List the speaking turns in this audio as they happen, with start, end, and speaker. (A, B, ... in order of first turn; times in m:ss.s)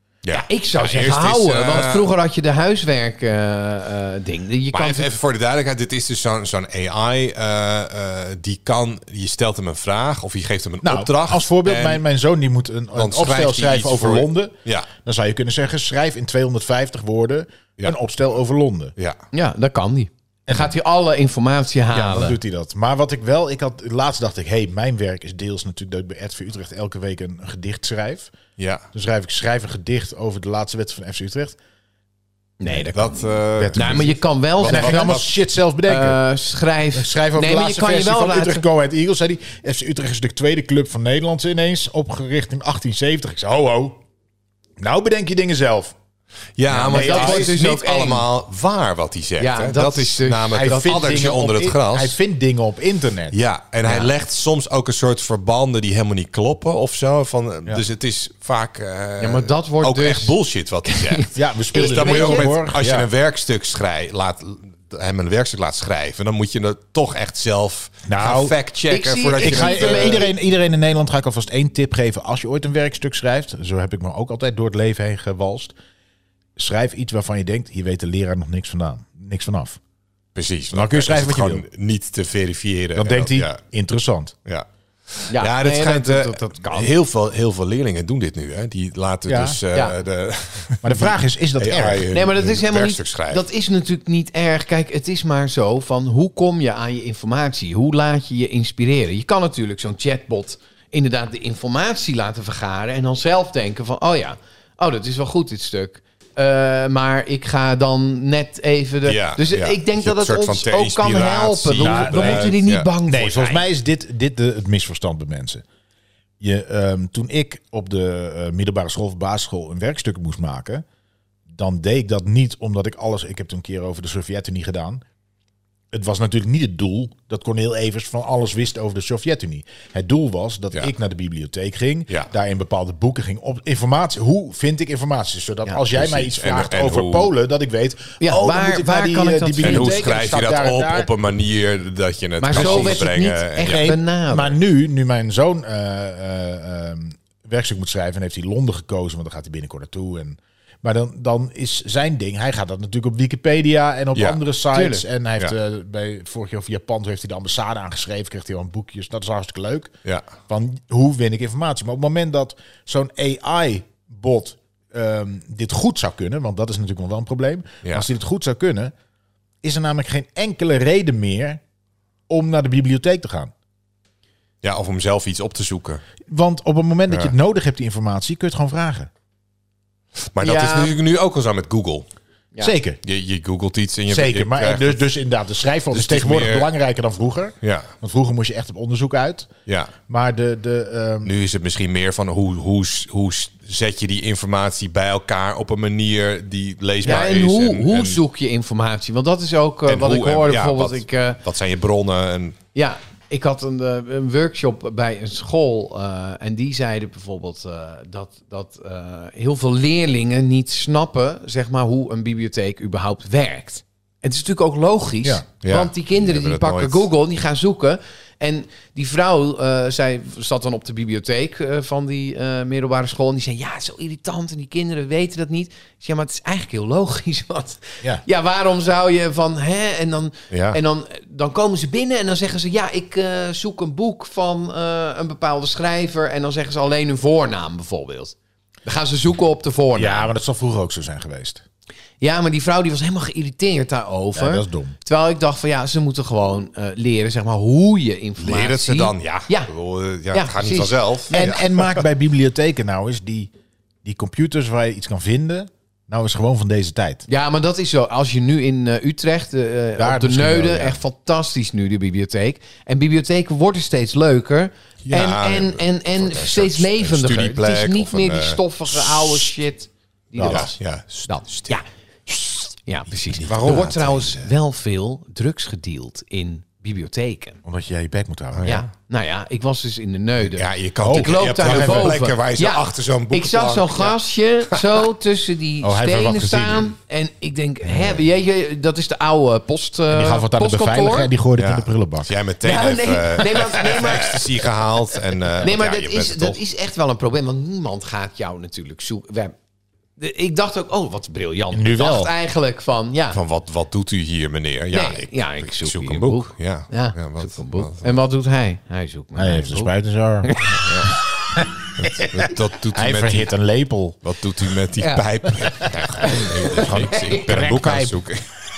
0:00.2-0:02.1 A
0:00.3-0:05.1 B
0:04.7-0:12.0 A
0:10.8-0:18.9 C
0:12.9-0:14.9 A
0:19.3-0:22.4 B
0:20.5-0:20.7 C
0:21.9-0:28.3 C
0:28.6-0:28.8 A
0:28.9-0:31.6 C
0:32.6-0:35.2 B
0:32.9-0:35.3 A
0:33.6-0:36.2 C
0:35.9-0:38.6 B
0:36.9-0:44.0 C
0:44.8-0:45.9 C
0:46.6-0:52.2 A
0:46.7-0:48.3 B
0:46.8-0:47.6 C
0:49.4-0:51.0 B
0:50.5-0:53.4 C
0:53.3-1:10.3 A
0:59.2-1:02.5 B
1:01.3-1:03.1 C
1:08.0-1:08.6 C
1:08.9-1:10.3 B
1:09.4-1:15.7 C
1:16.6-1:19.8 C
1:20.3-1:23.6 A
1:20.7-1:21.6 C
1:23.0-1:24.3 C
1:24.4-1:33.4 A
1:25.3-1:26.9 B
1:29.2-1:29.6 C
1:30.8-1:32.1 C
1:32.1-1:53.6 B
1:49.0-1:52.9 A
1:51.8-1:55.6 C
1:56.4-2:00.8 C
2:01.5-2:05.0 C
2:05.9-2:21.1 C
2:15.9-2:17.3 A
2:18.2-2:20.0 B
2:19.6-2:23.8 A
2:22.4-2:24.6 B
2:22.5-2:23.1 C
2:23.6-2:39.9 C
2:34.1-2:34.4 A
2:34.7-2:35.0 B
2:40.5-2:48.9 C
2:49.6-2:51.6 C
2:52.3-2:53.5 C
2:54.6-2:56.0 A
2:56.3-2:59.1 C
3:00.3-3:02.1 A
3:00.4-3:01.0 B
3:02.6-3:03.0 C
3:03.0-3:05.0 A
3:04.1-3:09.5 C
3:05.9-3:06.7 A
3:07.6-3:07.9 A
3:09.6-3:09.9 A
3:10.1-3:11.3 C
3:11.2-3:18.2 A
3:17.0-3:21.4 B
3:19.9-3:22.6 A
3:22.7-4:00.3 B
3:35.6-3:37.1 A
3:50.5-3:50.8 A
3:59.9-4:01.6 C
4:02.2-4:09.7 B
4:04.4-4:04.9 C
4:08.4-4:12.0 A
4:10.3-4:11.5 B
4:11.3-4:13.5 C
4:14.0-4:17.2 C
4:17.3-4:37.6 B
4:20.0-4:21.0 C
4:25.0-4:29.5 A
4:30.3-4:30.7 C
4:30.4-4:31.8 A
4:33.3-4:34.5 A
4:33.5-4:33.9 C
4:37.6-4:38.8 C
4:38.5-4:38.9 A
4:38.6-4:51.3 B
4:40.5-4:44.2 A
4:41.0-4:42.2 C
4:45.8-4:46.9 C
4:50.1-4:52.3 C
4:51.6-4:56.6 A
4:52.6-4:54.4 B
4:55.6-4:59.5 B
5:00.2-5:03.4 B
5:01.7-5:02.3 C
5:03.3-5:08.1 A
5:04.9-5:09.9 B
5:09.3-5:10.6 C
5:10.4-5:10.9 B
5:10.7-5:11.2 A
5:11.5-5:14.2 C
5:12.0-5:13.5 A
5:14.2-5:18.5 A
5:15.0-5:17.6 B
5:16.9-5:18.2 C